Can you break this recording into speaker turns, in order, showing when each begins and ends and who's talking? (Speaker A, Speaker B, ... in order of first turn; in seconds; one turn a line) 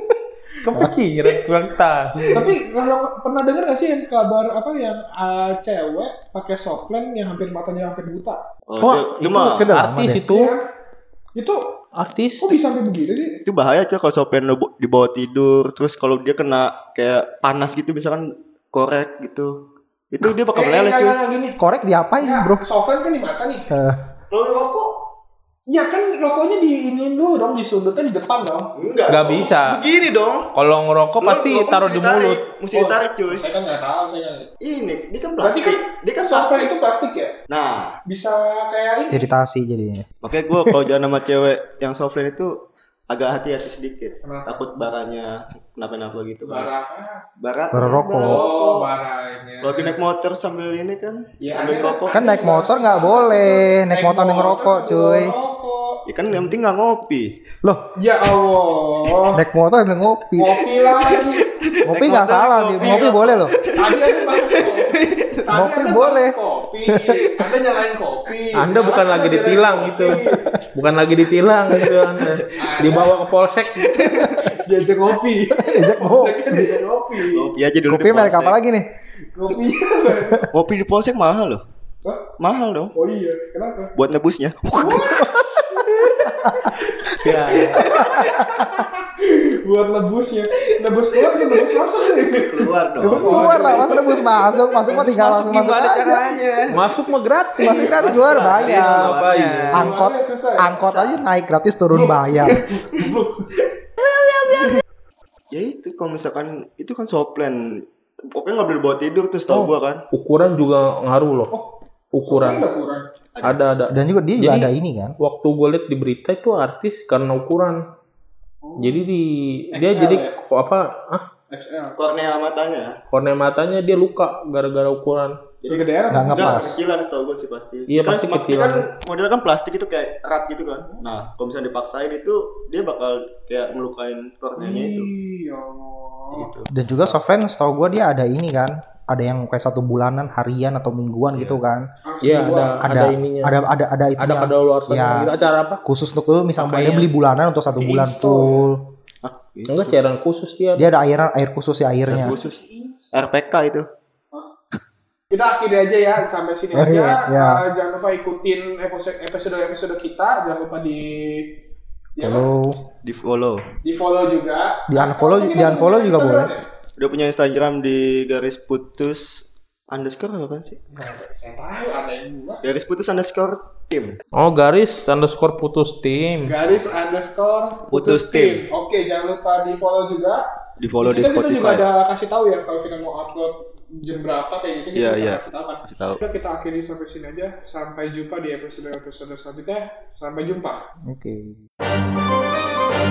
Speaker A: 0.6-2.5
Speaker B: 2.3-8.4
Speaker C: 8.7-9.7
Speaker A: 8.8-10.5
Speaker D: 9.4-10.3
Speaker B: 10.2-10.6
Speaker A: 11.9-12.5
Speaker B: 12.4-13.4
Speaker C: 13.4-19.5
Speaker C: 20.1-21.2
Speaker B: 20.5-21.6
Speaker D: 21.6-22.6
Speaker B: 22.2-23.7
Speaker D: 23.7-24.0
Speaker C: 24.3-24.9
Speaker B: 25.7-28.7
Speaker C: 28.8-30.5
Speaker A: 29.1-29.8
Speaker A: 30.5-32.4
Speaker C: 31.2-33.4
Speaker B: 32.7-34.5
Speaker C: 34.6-36.7
Speaker B: 35.4-37.3
Speaker C: 37.5-37.9
Speaker B: 38.0-39.3
Speaker D: 39.1-40.8
Speaker C: 40.2-42.5
Speaker C: 43.1-46.7
Speaker B: 44.2-44.9
Speaker B: 46.4-47.1
Speaker C: 47.4-48.9
Speaker D: 47.7-48.4
Speaker B: 48.2-50.0
Speaker C: 49.6-52.3
Speaker B: 51.4-56.0
Speaker D: 52.1-55.3
Speaker C: 56.1-57.3
Speaker D: 57.6-57.9
Speaker B: 58.0-59.4
Speaker D: 59.3-60.6
Speaker B: 60.4-61.4
Speaker C: 60.9-65.7
Speaker D: 61.9-63.5
Speaker B: 62.8-63.2
Speaker B: 63.8-70.5
Speaker D: 65.5-66.3
Speaker A: 68.5-70.2
Speaker A: 70.7-74.0
Speaker D: 71.7-72.1
Speaker B: 72.6-73.1
Speaker B: 73.9-77.5
Speaker C: 73.9-74.5
Speaker D: 74.0-74.5
Speaker D: 75.5-76.8
Speaker C: 77.3-78.5
Speaker D: 77.9-78.9
Speaker B: 79.3-80.5
Speaker C: 80.5-81.6
Speaker C: 82.4-82.9
Speaker B: 83.0-83.9
Speaker C: 84.0-85.1
Speaker B: 84.8-85.8
Speaker D: 84.8-86.8
Speaker B: 86.7-94.6
Speaker A: 87.2-87.8
Speaker D: 87.8-88.8
Speaker C: 91.3-93.9
Speaker D: 93.0-96.4
Speaker C: 94.9-96.8
Speaker A: 96.7-99.8
Speaker D: 97.6-99.1
Speaker C: 97.8-99.8
Speaker D: 99.7-102.6
Speaker B: 99.7-101.2
Speaker B: 101.9-103.5
Speaker C: 105.5-110.0
Speaker A: 109.5-111.5
Speaker A: 112.1-112.7
Speaker B: 112.2-113.1
Speaker A: 113.4-117.8
Speaker D: 113.9-115.1
Speaker B: 118.6-119.1
Speaker A: 118.8-121.2
Speaker B: 119.7-120.3
Speaker B: 121.5-121.9
Speaker C: 122.0-123.0
Speaker A: 123.1-125.3
Speaker C: 125.6-135.1
Speaker B: 125.7-126.8
Speaker D: 126.1-126.8
Speaker A: 127.9-128.8
Speaker B: 134.6-136.5
Speaker C: 136.3-137.1
Speaker D: 136.7-141.8
Speaker C: 141.3-141.6
Speaker B: 142.0-142.8
Speaker A: 142.2-143.5
Speaker D: 142.8-148.8
Speaker A: 144.2-145.8
Speaker A: 146.6-147.1
Speaker B: 147.8-148.7
Speaker C: 149.2-150.0
Speaker A: 149.7-150.8
Speaker D: 150.8-152.3
Speaker C: 152.1-152.6
Speaker B: 152.1-153.1
Speaker C: 153.1-153.8
Speaker B: 155.3-161.5
Speaker D: 156.7-157.6
Speaker B: 162.2-162.5
Speaker D: 162.2-162.8
Speaker C: 163.0-163.6
Speaker B: 163.8-166.6
Speaker D: 164.9-166.5
Speaker C: 167.0-170.8
Speaker B: 170.9-172.6
Speaker C: 172.6-174.2
Speaker A: 174.3-176.5
Speaker B: 176.4-180.4
Speaker C: 176.6-177.0
Speaker C: 177.9-178.6
Speaker C: 180.8-181.8
Speaker B: 181.0-190.8
Speaker C: 184.9-186.2
Speaker D: 191.1-191.6